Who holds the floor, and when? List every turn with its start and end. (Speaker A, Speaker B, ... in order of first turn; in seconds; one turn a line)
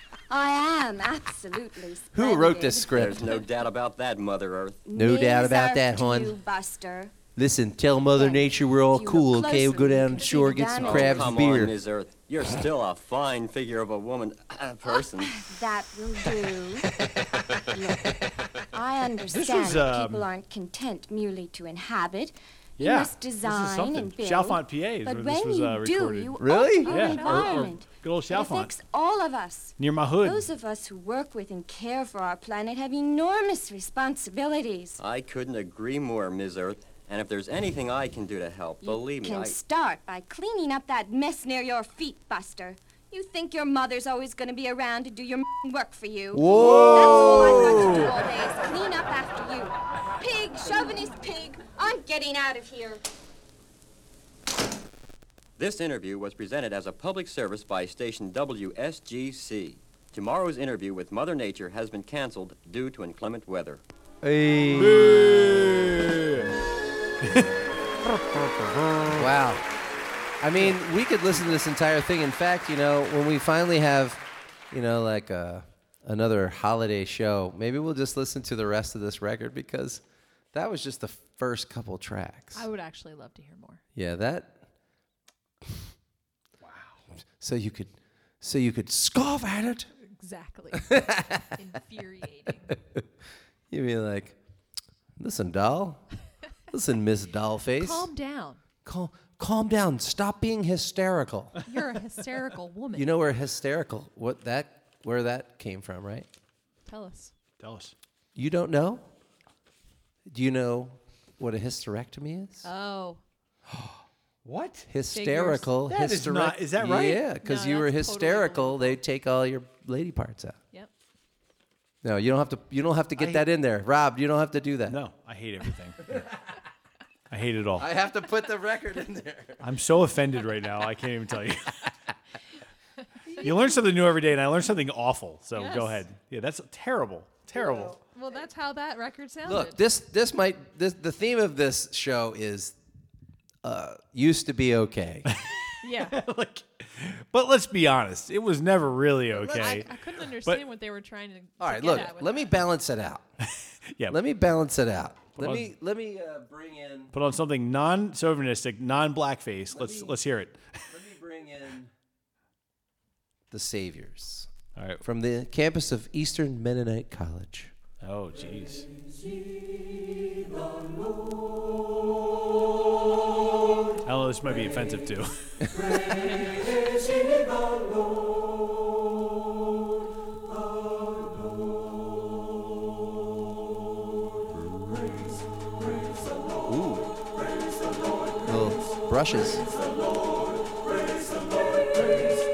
Speaker A: 0.3-3.1
Speaker B: 2.1-3.4
Speaker C: 2.9-4.8
Speaker A: 4.9-7.2
Speaker B: 4.9-6.4
Speaker B: 7.4-11.8
Speaker A: 8.1-11.3
Speaker C: 10.7-15.5
Speaker A: 14.9-16.9
Speaker A: 17.7-18.1
Speaker A: 18.7-35.0
Speaker D: 19.3-20.3
Speaker D: 22.8-28.8
Speaker B: 26.4-27.3
Speaker D: 29.8-30.5
Speaker C: 35.0-39.6
Speaker A: 38.8-53.0
Speaker B: 46.3-48.1
Speaker D: 46.5-47.9
Speaker C: 55.6-63.8
Speaker B: 64.2-65.6
Speaker D: 64.7-66.5
Speaker D: 67.2-67.5
Speaker D: 68.1-69.2
Speaker B: 69.1-69.7
Speaker B: 70.4-80.0
Speaker B: 80.5-82.7
Speaker E: 82.5-83.8
Speaker B: 84.0-84.6
Speaker D: 86.6-87.0
Speaker B: 87.4-89.9
Speaker E: 90.1-92.8
Speaker B: 90.7-91.4
Speaker B: 93.7-94.4
Speaker B: 95.2-96.0
Speaker B: 96.7-98.1
Speaker E: 97.8-98.6
Speaker B: 98.8-101.5
Speaker E: 101.7-103.1
Speaker B: 102.9-106.3
Speaker E: 106.9-107.3
Speaker D: 107.6-107.9
Speaker B: 108.4-109.0
Speaker B: 110.3-112.7
Speaker E: 112.6-113.2
Speaker D: 114.5-114.9
Speaker B: 114.9-120.6
Speaker E: 115.1-115.7
Speaker D: 115.9-117.3
Speaker E: 117.4-119.0
Speaker B: 122.0-125.0
Speaker D: 123.2-123.5
Speaker D: 124.9-126.3
Speaker D: 127.3-127.9
Speaker B: 127.8-129.6
Speaker D: 129.6-131.8
Speaker D: 133.4-138.0
Speaker E: 135.6-136.0
Speaker E: 138.0-139.8
Speaker B: 139.4-142.8
Speaker B: 143.6-145.3
Speaker E: 145.8-146.2
Speaker D: 145.9-149.9
Speaker E: 149.3-152.5
Speaker B: 151.6-153.3
Speaker D: 153.9-154.2
Speaker B: 154.1-157.1
Speaker D: 155.4-155.7
Speaker D: 157.1-160.8
Speaker B: 159.7-160.2
Speaker B: 160.9-161.9
Speaker B: 163.5-164.5
Speaker D: 164.8-165.0
Speaker B: 165.0-167.7
Speaker D: 168.0-168.9
Speaker D: 174.1-175.7
Speaker B: 186.7-187.1
Speaker B: 188.4-189.6